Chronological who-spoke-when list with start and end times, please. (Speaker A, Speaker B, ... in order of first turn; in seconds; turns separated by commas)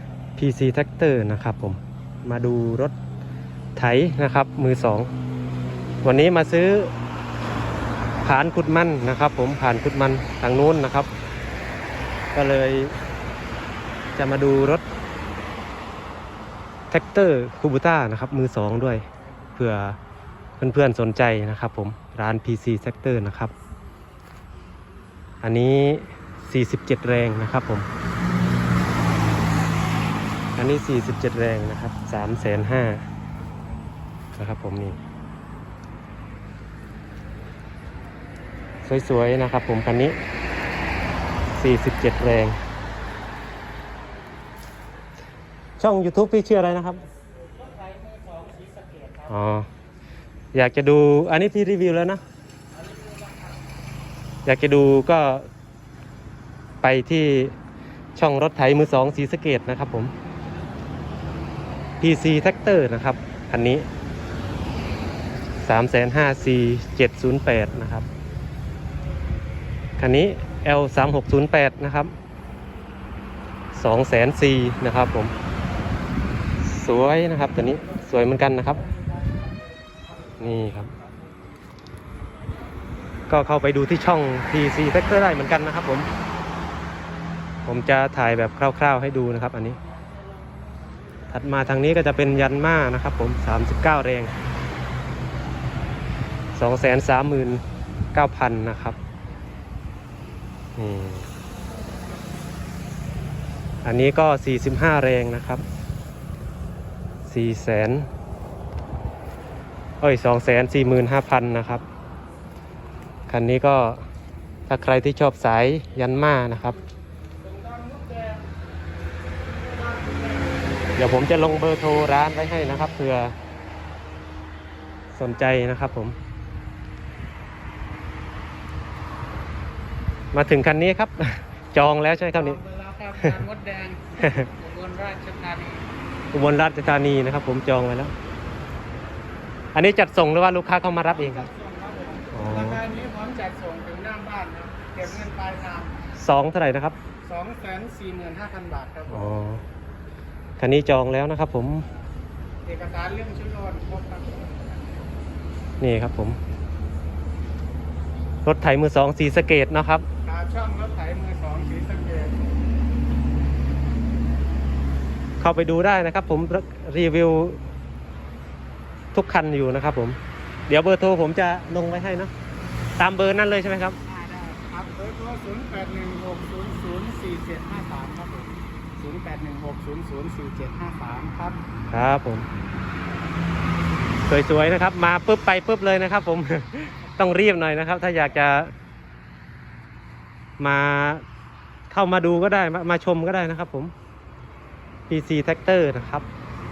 Speaker A: 0.4-2.9, Speaker A: 3.8-5.1, Speaker A: 6.0-6.9, Speaker A: 8.2-11.1, Speaker A: 12.3-12.9, Speaker A: 14.2-14.8, Speaker A: 16.9-19.0, Speaker A: 19.6-20.0, Speaker A: 20.6-23.5, Speaker A: 25.4-27.9, Speaker A: 30.6-33.0, Speaker A: 34.4-35.0, Speaker A: 38.8-40.2, Speaker A: 41.5-42.5, Speaker A: 45.8-47.0, Speaker B: 47.5-49.3, Speaker A: 49.3-49.7, Speaker A: 50.5-52.2, Speaker A: 54.5-55.5, Speaker A: 56.8-57.5, Speaker A: 58.1-60.1, Speaker A: 62.0-63.9, Speaker A: 65.6-68.0, Speaker A: 70.0-72.1, Speaker A: 73.7-75.3, Speaker A: 76.6-78.8, Speaker A: 80.4-80.9, Speaker A: 83.3-86.1, Speaker A: 87.6-89.8, Speaker A: 91.3-94.3, Speaker A: 96.5-97.6, Speaker A: 98.1-99.0, Speaker A: 100.8-101.3, Speaker A: 103.8-105.6, Speaker A: 107.3-108.1, Speaker A: 110.0-111.8, Speaker A: 113.3-114.0, Speaker A: 114.7-116.8, Speaker B: 117.4-118.5, Speaker B: 119.5-120.6, Speaker A: 121.0-123.3, Speaker A: 125.1-126.2, Speaker A: 130.3-132.6, Speaker B: 132.3-135.8, Speaker A: 134.2-134.5, Speaker A: 136.3-138.1, Speaker A: 139.7-141.5, Speaker B: 141.1-145.9, Speaker A: 142.3-142.8, Speaker A: 146.2-146.9, Speaker B: 147.2-149.3, Speaker A: 149.1-149.6, Speaker A: 150.6-151.8, Speaker B: 152.6-155.0, Speaker A: 155.8-156.4, Speaker A: 158.4-160.0, Speaker B: 160.2-162.4, Speaker A: 165.4-167.6, Speaker A: 169.1-172.3, Speaker A: 173.0-174.0, Speaker B: 174.0-181.6, Speaker A: 181.9-182.5, Speaker A: 184.3-188.7, Speaker A: 190.6-191.2, Speaker A: 191.9-193.9, Speaker A: 195.1-196.2